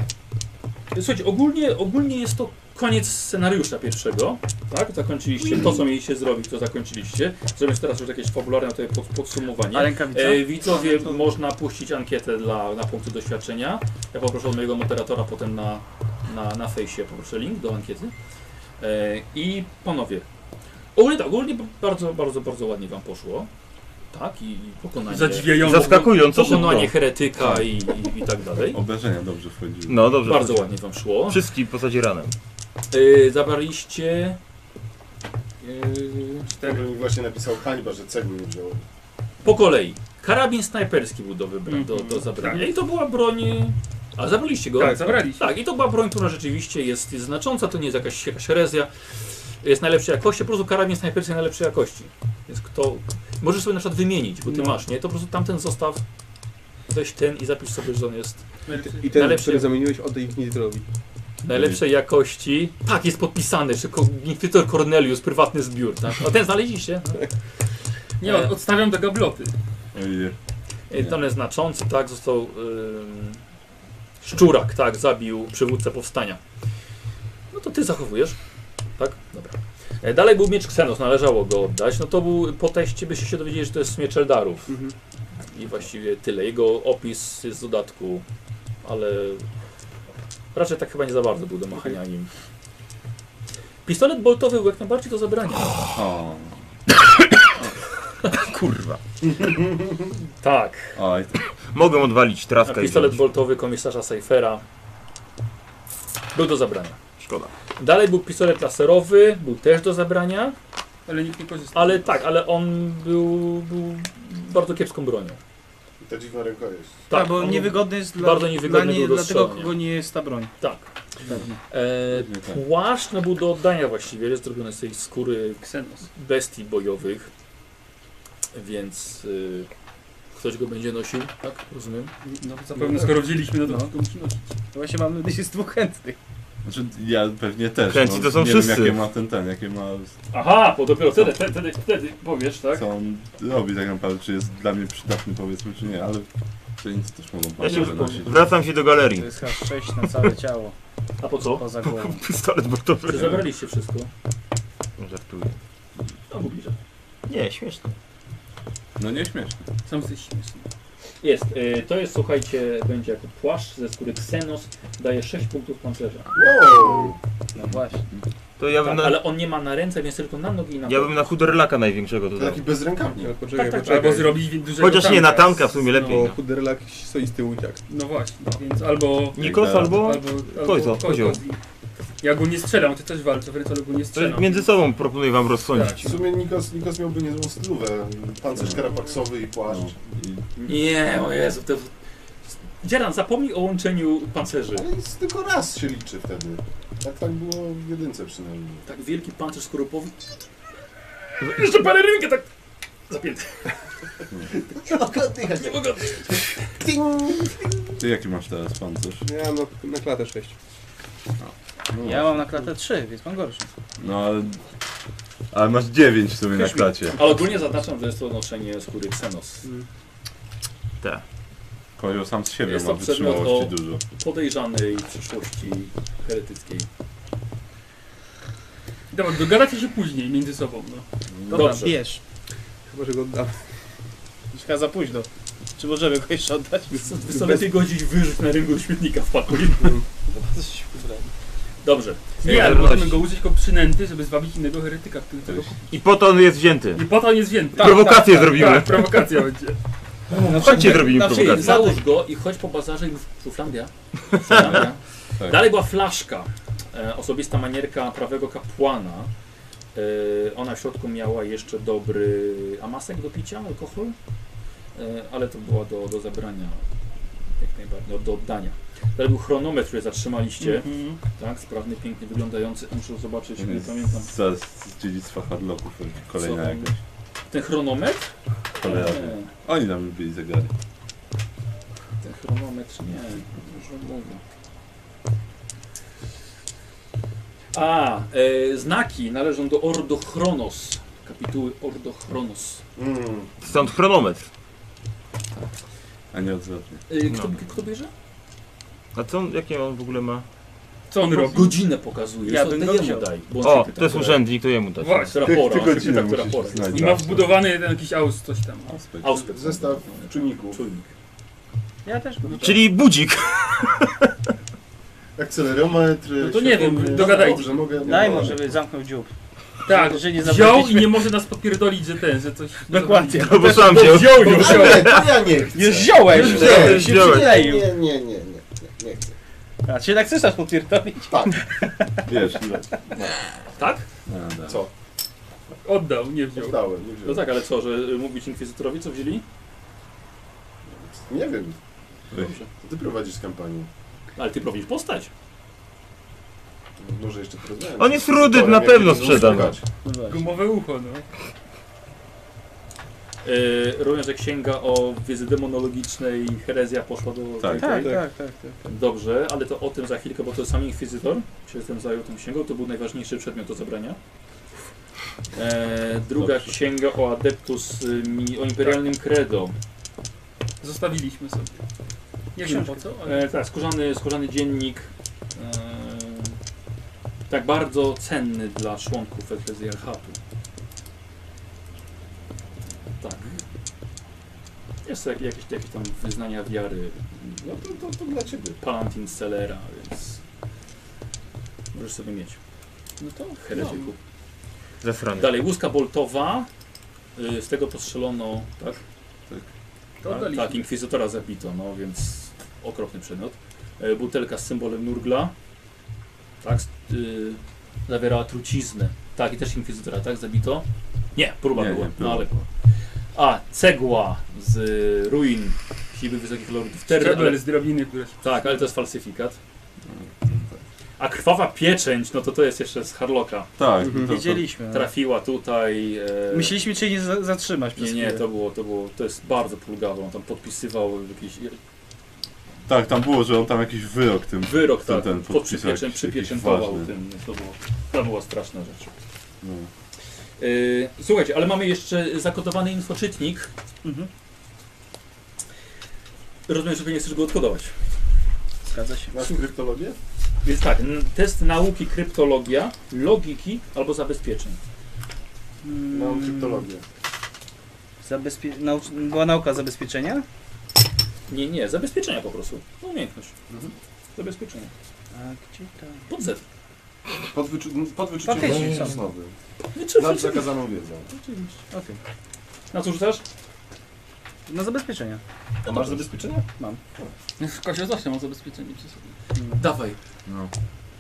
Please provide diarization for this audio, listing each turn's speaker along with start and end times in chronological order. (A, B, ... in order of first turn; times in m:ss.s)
0:00.9-0:18.1 A
0:09.7-0:10.7 B
0:18.8-0:20.3 A
0:21.0-0:23.5 A
0:24.1-0:28.8 A
0:25.1-0:26.1 C
0:25.6-0:27.0 D
0:28.7-0:30.1 E
0:29.9-0:32.4 D
0:30.2-0:31.4 A
0:32.9-0:34.4 A
0:35.6-0:36.5 A
0:36.5-0:38.8 F
0:36.5-0:36.9 C
0:39.4-0:48.9 A
0:41.7-0:42.7 C
0:44.8-0:45.5 C
0:44.8-0:45.2 G
0:49.6-0:56.0 A
0:56.9-0:58.5 A
0:58.7-0:59.3 C
0:58.9-1:00.8 G
0:59.1-0:59.7 A
1:01.4-1:07.2 A
1:01.5-1:01.8 E
1:08.2-1:09.5 C
1:09.9-1:10.4 E
1:10.9-1:13.4 A
1:14.2-1:16.4 A
1:17.5-1:18.4 A
1:19.0-1:24.7 A
1:24.7-1:24.9 G
1:25.5-1:28.2 A
1:28.8-1:29.5 A
1:30.5-1:32.3 A
1:33.8-1:35.9 A
1:35.9-1:36.6 E
1:38.3-1:39.0 D
1:39.4-1:39.9 F
1:40.4-1:41.0 A
1:41.0-1:41.4 E
1:41.7-1:43.2 D
1:42.6-1:44.6 A
1:46.3-1:47.0 A
1:47.2-1:47.5 D
1:47.8-1:50.6 A
1:51.1-1:52.2 C
1:51.7-1:55.4 A
1:56.0-1:57.1 F
1:57.1-1:59.8 A
1:57.1-2:00.5 B
2:00.6-2:00.9 A
2:01.3-2:01.6 B
2:01.7-2:05.6 A
2:02.1-2:02.6 E
2:05.6-2:06.1 C
2:06.2-2:07.3 A
2:08.5-2:09.7 A
2:10.3-2:12.1 A
2:12.4-2:14.4 C
2:13.6-2:13.9 B
2:14.7-2:16.2 B
2:16.6-2:20.1 E
2:17.9-2:19.0 D
2:20.3-2:22.9 A
2:22.7-2:26.3 E
2:26.8-2:28.5 E
2:27.6-2:29.4 D
2:27.6-2:28.2 A
2:29.1-2:30.8 B
2:31.2-2:31.6 A
2:31.5-2:32.2 B
2:31.8-2:33.4 D
2:33.1-2:34.1 A
2:35.0-2:35.6 D
2:36.3-2:36.8 A
2:37.3-2:37.9 D
2:39.0-2:39.6 E
2:39.8-2:40.7 C
2:41.2-2:46.6 A
2:46.3-2:47.2 F
2:47.6-2:48.0 B
2:48.6-2:49.3 D
2:48.8-2:51.4 A
2:50.9-2:52.6 D
2:52.4-2:53.4 F
2:53.2-2:54.4 G
2:53.6-2:54.3 A
2:53.7-2:56.2 C
2:54.8-2:56.4 D
2:56.0-2:57.8 G
2:57.9-3:01.6 C
2:59.3-3:01.4 D
2:59.4-3:00.1 E
3:02.2-3:04.7 C
3:04.1-3:06.2 D
3:05.7-3:06.3 C
3:06.0-3:10.0 F
3:09.7-3:10.4 E
3:10.6-3:11.9 A
3:12.5-3:14.9 A
3:14.8-3:18.8 F
3:18.9-3:20.2 A
3:21.4-3:22.5 A
3:23.1-3:23.7 A
3:24.6-3:27.8 F
3:25.6-3:26.4 A
3:28.0-3:29.2 E
3:29.2-3:30.6 G
3:31.4-3:32.4 E
3:32.0-3:33.7 B
3:34.0-3:34.6 E
3:35.5-3:37.3 E
3:36.5-3:37.3 B
3:37.2-3:39.7 A
3:42.0-3:44.0 E
3:42.6-3:46.9 A
3:49.1-3:51.1 C
3:51.3-3:51.7 E
3:51.5-3:52.2 B
3:51.5-3:52.0 A
3:52.9-3:53.6 G
3:54.5-3:57.1 B
3:56.9-4:00.0 A
3:57.3-3:57.7 G
4:00.3-4:01.3 B
4:01.8-4:02.2 A
4:02.4-4:05.8 C
4:02.4-4:03.3 D
4:05.9-4:07.1 D
4:07.0-4:09.8 C
4:07.8-4:09.3 D
4:07.8-4:08.8 B
4:10.3-4:12.0 B
4:10.5-4:11.9 D
4:10.6-4:19.3 A
4:14.5-4:14.8 E
4:20.0-4:24.2 A
4:25.0-4:26.8 A
4:27.6-4:34.3 A
4:30.6-4:31.2 C
4:33.6-4:37.0 E
4:36.4-4:36.9 A
4:37.5-4:39.5 A
4:38.8-4:40.7 E
4:42.2-4:44.4 A
4:47.7-4:52.8 A
4:53.0-4:53.5 F
4:53.6-4:54.5 D
4:56.3-4:57.0 E
4:57.1-4:58.1 A
4:59.1-5:00.4 D
5:01.1-5:01.8 C
5:01.3-5:04.4 A
5:02.4-5:03.3 B
5:03.6-5:05.4 D
5:05.0-5:05.4 C
5:05.3-5:07.2 A
5:05.4-5:07.6 E
5:06.9-5:09.0 C
5:08.9-5:09.6 E
5:09.2-5:11.1 A
5:09.3-5:10.8 F
5:12.0-5:12.9 B
5:12.6-5:14.3 D
5:15.4-5:18.7 F
5:16.4-5:18.0 C
5:18.0-5:19.3 B
5:19.9-5:25.2 C
5:19.9-5:21.3 B
5:22.9-5:24.9 B
5:23.4-5:25.4 D
5:24.1-5:29.4 F
5:25.7-5:28.0 B
5:26.2-5:27.6 D
5:26.3-5:27.0 C
5:29.8-5:32.3 B
5:31.3-5:31.6 F
5:32.3-5:33.4 E
5:33.8-5:34.1 A
5:34.3-5:34.8 E
5:34.7-5:34.9 F
5:35.8-5:36.8 C
5:36.6-5:37.5 F
5:37.2-5:39.4 A
5:40.9-5:41.8 F
5:42.4-5:43.9 F
5:44.4-5:45.3 A
5:47.0-5:49.9 F
5:48.0-5:49.8 D
5:50.0-5:50.5 B
5:50.2-5:51.3 C
5:53.4-5:58.2 A
5:57.6-5:58.0 E
5:57.7-5:58.8 B
5:58.8-6:04.2 A
6:05.5-6:09.8 A
6:06.4-6:06.7 E
6:10.8-6:11.8 C
6:12.6-6:13.4 C
6:12.6-6:13.1 B
6:12.6-6:16.6 A
6:17.5-6:20.4 A
6:23.2-6:23.6 A
6:25.0-6:27.4 A
6:27.6-6:28.8 F
6:28.8-6:30.4 A
6:31.9-6:32.6 A
6:33.2-6:34.1 C
6:33.6-6:34.2 A
6:35.0-6:35.6 D
6:35.4-6:36.7 A
6:37.4-6:39.0 A
6:40.2-6:40.9 C
6:40.2-6:45.5 A
6:46.6-6:52.5 A
6:51.7-6:52.7 E
6:53.3-6:57.6 A
6:57.1-6:58.8 C
6:58.4-6:59.6 A
7:00.1-7:00.8 E
7:01.2-7:03.7 A
7:03.8-7:04.7 E
7:04.0-7:04.3 G
7:04.2-7:05.1 B
7:04.9-7:06.8 A
7:06.5-7:08.4 B
7:08.0-7:11.8 A
7:12.9-7:17.1 E
7:14.6-7:19.1 A
7:19.6-7:19.9 E
7:20.6-7:23.7 A
7:24.0-7:24.3 B
7:26.7-7:27.9 A
7:28.9-7:29.3 B
7:29.3-7:30.2 F
7:30.6-7:34.8 A
7:35.8-7:36.9 B
7:36.1-7:37.0 F
7:38.2-7:40.4 B
7:41.5-7:43.5 A
7:44.4-7:44.9 A
7:45.3-7:46.2 B
7:46.3-7:46.6 A
7:47.5-7:49.5 F
7:48.4-7:49.2 B
7:50.0-7:50.7 A
7:50.1-7:51.4 F
7:51.3-7:52.2 B
7:52.9-7:53.4 A
7:54.7-7:55.4 B
7:55.8-7:56.7 F
7:57.6-7:59.3 C
7:59.6-7:59.8 B
7:59.8-8:00.2 A
8:00.5-8:00.7 E